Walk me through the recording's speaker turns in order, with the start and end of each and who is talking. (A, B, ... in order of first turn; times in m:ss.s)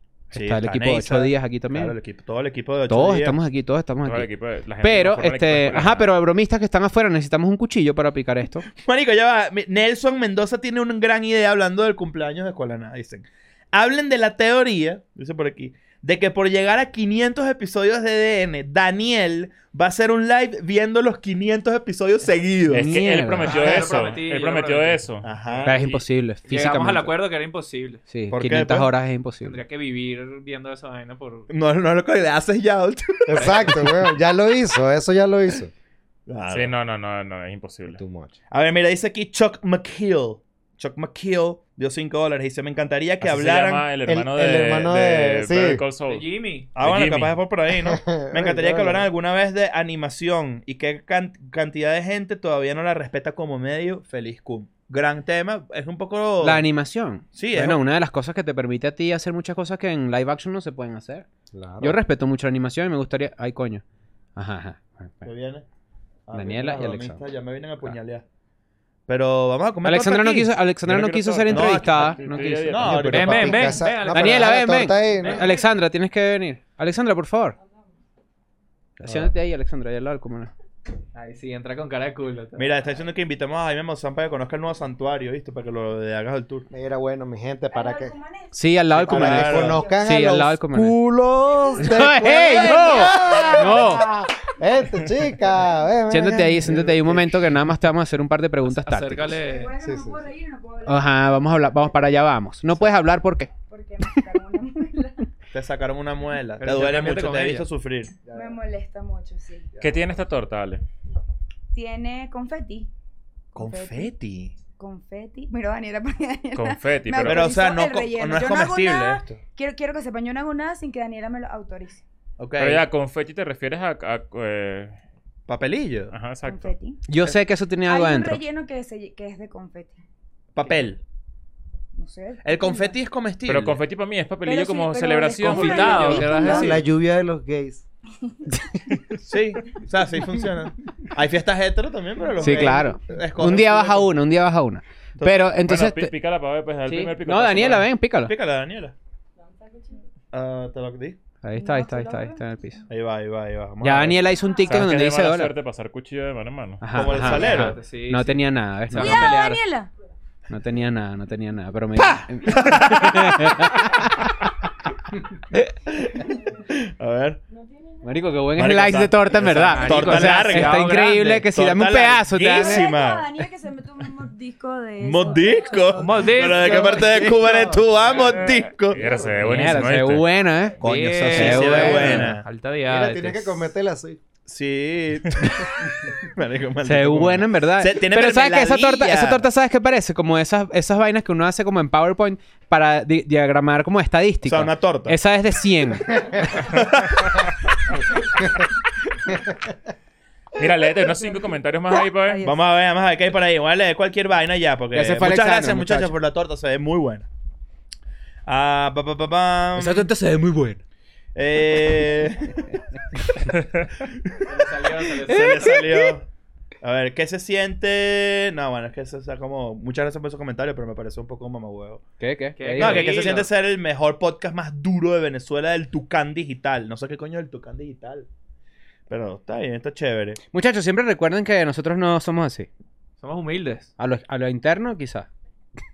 0:00.3-0:01.9 A
0:00.3-0:03.4 B
0:02.9-0:04.3 A
0:04.0-0:06.1 C
0:04.8-0:08.6 A
0:08.8-0:22.9 B
0:22.7-0:25.9 C
0:22.7-0:23.7 A
0:23.4-0:25.6 D
0:23.8-0:24.1 B
0:25.2-0:25.8 B
0:25.6-0:27.1 A
0:26.5-0:28.0 D
0:28.1-0:29.6 A
0:28.3-0:28.9 B
0:29.4-0:31.5 D
0:31.5-0:34.1 B
0:33.3-0:35.7 E
0:36.3-0:36.7 B
0:36.5-0:38.0 C
0:37.9-0:38.3 E
0:38.5-0:43.9 B
0:43.2-0:47.4 C
0:44.0-0:45.8 E
0:46.1-0:46.7 D
0:46.7-0:56.6 B
0:47.7-0:49.1 E
0:56.4-1:01.2 A
0:57.3-0:57.8 B
1:01.5-1:02.0 E
1:01.8-1:03.8 A
1:04.4-1:05.3 A
1:05.2-1:05.6 B
1:06.3-1:08.2 B
1:06.3-1:07.2 A
1:09.1-1:10.5 B
1:09.8-1:12.9 A
1:10.8-1:13.1 C
1:11.5-1:13.9 B
1:12.8-1:15.5 E
1:13.0-1:15.6 D
1:14.1-1:17.6 A
1:19.0-1:20.5 A
1:19.0-1:19.3 B
1:21.1-1:22.7 D
1:22.6-1:26.7 B
1:26.7-1:28.2 E
1:27.7-1:28.7 F
1:28.5-1:31.0 A
1:28.9-1:29.8 B
1:28.9-1:37.6 E
1:29.4-1:30.0 F
1:31.8-1:34.1 A
1:32.3-1:34.0 F
1:36.1-1:39.4 A
1:38.6-1:39.7 D
1:39.4-1:41.8 F
1:39.8-1:40.2 E
1:40.8-1:43.5 A
1:43.7-1:45.3 F
1:45.5-1:48.2 B
1:46.6-1:47.7 D
1:48.2-1:48.6 E
1:48.3-1:49.7 F
1:49.8-1:50.1 B
1:49.8-1:50.8 C
1:51.7-1:52.9 F
1:53.5-1:54.1 F
1:53.5-1:54.5 B
1:54.8-2:02.0 F
1:56.5-1:57.5 C
1:57.2-1:59.4 B
2:02.4-2:02.8 B
2:02.6-2:05.0 C
2:05.5-2:06.1 B
2:06.1-2:06.7 C
2:06.4-2:07.0 F
2:07.1-2:08.4 A
2:07.8-2:10.0 F
2:10.5-2:11.0 B
2:11.9-2:13.0 F
2:12.4-2:13.8 B
2:13.5-2:16.4 C
2:14.4-2:16.8 F
2:15.4-2:16.8 D
2:16.3-2:17.8 E
2:19.2-2:24.2 B
2:22.4-2:26.1 A
2:25.2-2:25.5 B
2:25.6-2:27.9 C
2:26.8-2:28.3 A
2:28.2-2:28.9 B
2:30.3-2:31.2 B
2:31.4-2:32.8 A
2:31.6-2:32.4 F
2:32.9-2:34.2 B
2:33.8-2:35.5 A
2:34.5-2:34.8 F
2:34.7-2:36.9 C
2:36.8-2:39.5 A
2:36.9-2:37.8 B
2:37.0-2:39.6 D
2:39.0-2:39.9 F
2:40.5-2:44.5 A
2:42.4-2:43.7 B
2:45.5-2:47.4 B
2:48.0-2:52.8 A
2:48.5-2:53.4 B
2:49.6-2:51.3 D
2:52.5-2:57.2 F
2:55.0-2:59.0 B
2:55.9-2:56.9 D
2:56.5-2:59.5 E
2:58.9-3:00.3 C
2:59.4-3:02.3 A
3:00.8-3:02.5 B
3:00.8-3:03.7 D
3:02.8-3:04.2 E
3:04.4-3:09.4 B
3:06.8-3:16.7 A
3:14.4-3:15.2 B
3:16.6-3:17.4 B
3:20.5-3:22.5 C
3:22.0-3:22.6 F
3:22.4-3:27.3 B
3:24.9-3:26.1 A
3:28.4-3:30.1 B
3:29.8-3:30.8 A
3:31.3-3:32.8 B
3:34.0-3:34.7 B
3:34.4-3:35.6 D
3:35.2-3:36.1 A
3:35.2-3:36.3 B
3:36.8-3:42.0 B
3:42.2-3:43.1 A
3:42.6-3:43.5 D
3:42.8-3:48.3 B
3:49.1-3:50.4 B
3:50.5-3:52.7 A
3:53.2-3:53.9 D
3:54.0-3:55.3 A